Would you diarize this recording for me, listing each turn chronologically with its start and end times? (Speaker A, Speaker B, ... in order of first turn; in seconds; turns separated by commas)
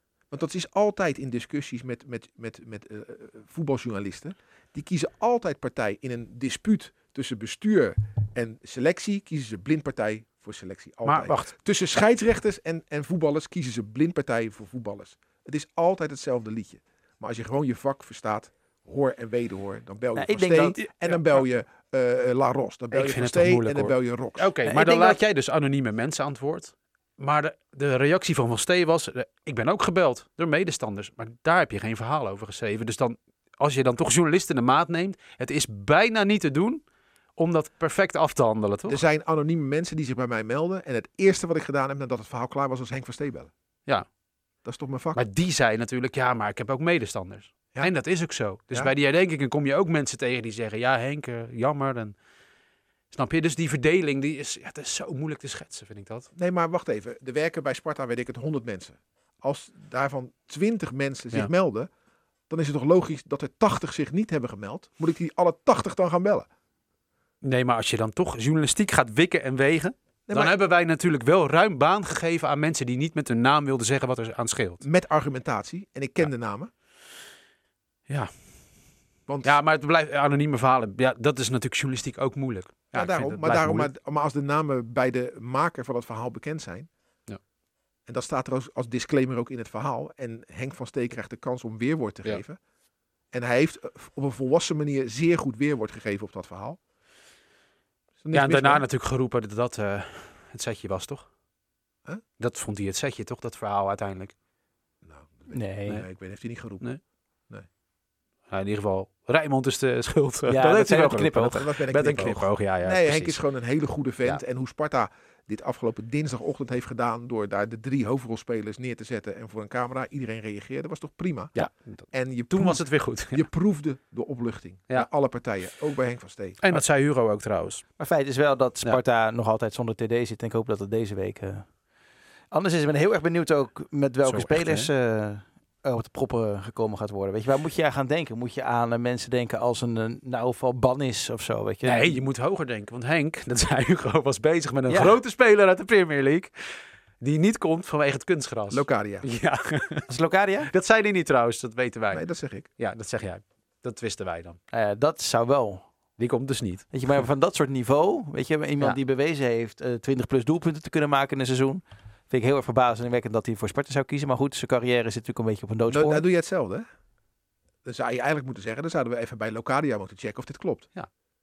Speaker A: 0.3-24.5, Speaker B: 11.1-11.5, Speaker C: 20.2-20.9, Speaker B: 22.9-39.0, Speaker C: 24.6-25.2, Speaker A: 38.9-43.5, Speaker A: 44.6-45.2, Speaker B: 45.1-52.2, Speaker A: 47.7-49.0, Speaker B: 53.1-56.3, Speaker A: 56.4-61.9, Speaker A: 62.5-66.5, Speaker B: 67.4-74.8, Speaker A: 70.3-70.5, Speaker A: 74.8-76.7, Speaker B: 78.1-83.9, Speaker A: 79.3-79.6, Speaker A: 82.9-86.9, Speaker A: 88.1-92.6, Speaker A: 93.3-96.8, Speaker A: 98.2-98.8, Speaker B: 98.3-101.3, Speaker B: 102.4-104.3, Speaker A: 105.0-107.7, Speaker C: 105.5-106.0, Speaker B: 105.9-106.2, Speaker B: 108.5-113.4, Speaker C: 110.5-111.6, Speaker A: 111.5-126.6, Speaker B: 121.5-123.5, Speaker B: 126.6-127.8, Speaker C: 128.0-131.8, Speaker C: 132.5-142.2, Speaker B: 134.3-134.9, Speaker B: 141.8-150.1, Speaker C: 144.9-145.2, Speaker A: 148.7-149.3, Speaker C: 150.1-150.7, Speaker B: 150.7-154.6, Speaker A: 152.1-152.7, Speaker C: 154.7-155.9, Speaker B: 156.2-157.0, Speaker C: 156.9-166.2, Speaker A: 165.9-166.9, Speaker A: 167.8-170.9